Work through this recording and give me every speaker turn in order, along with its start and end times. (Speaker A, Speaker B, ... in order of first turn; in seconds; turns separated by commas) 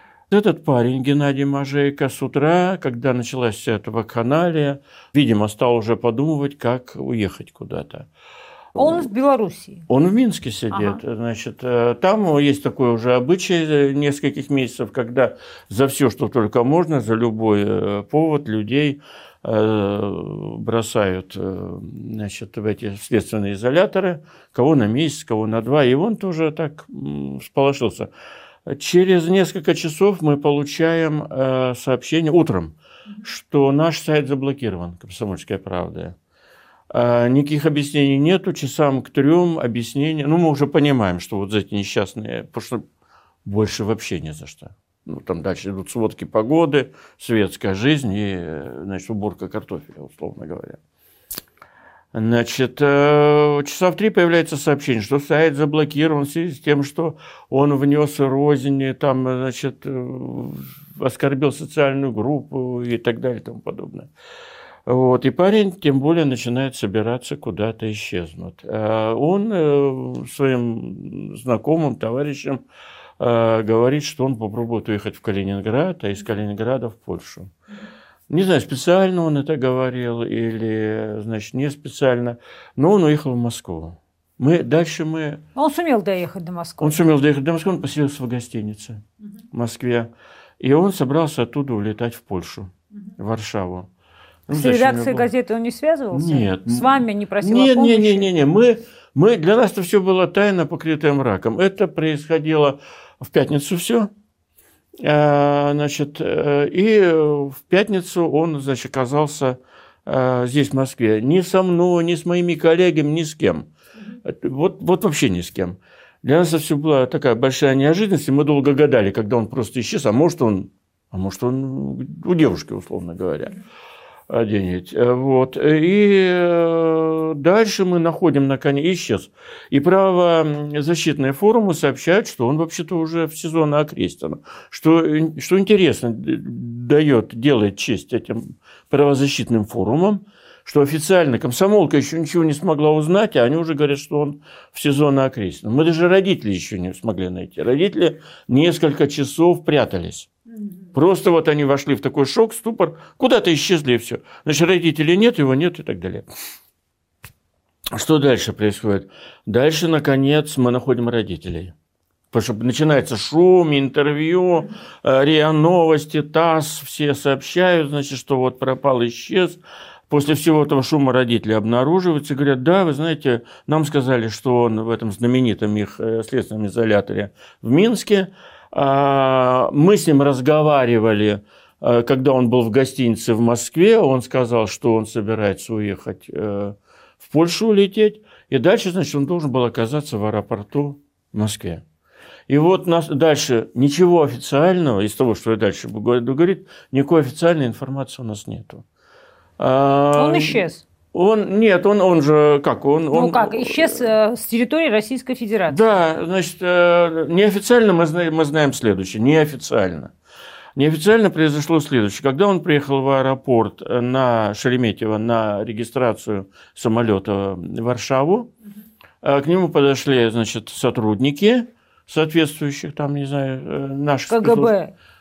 Speaker A: 0.3-8.1, Speaker A: 8.7-9.1, Speaker B: 8.8-9.8, Speaker A: 9.9-28.1, Speaker B: 10.7-11.0, Speaker A: 28.7-36.1, Speaker A: 36.9-42.8, Speaker A: 43.5-50.8, Speaker A: 52.1-64.1, Speaker A: 64.9-72.6, Speaker A: 73.2-77.5, Speaker A: 78.3-85.4, Speaker B: 85.5-87.0, Speaker A: 86.8-89.0, Speaker A: 89.5-93.9, Speaker A: 94.5-95.3, Speaker B: 94.5-98.3, Speaker A: 96.1-104.1, Speaker A: 105.0-113.7, Speaker A: 114.2-123.5, Speaker A: 124.3-150.3, Speaker A: 150.9-156.2, Speaker A: 157.9-161.7, Speaker A: 162.3-191.8, Speaker A: 192.5-198.8, Speaker A: 199.6-204.0, Speaker B: 200.1-200.8, Speaker B: 203.1-205.8, Speaker A: 205.7-210.1, Speaker A: 210.8-218.5, Speaker A: 219.2-224.7, Speaker B: 224.3-224.9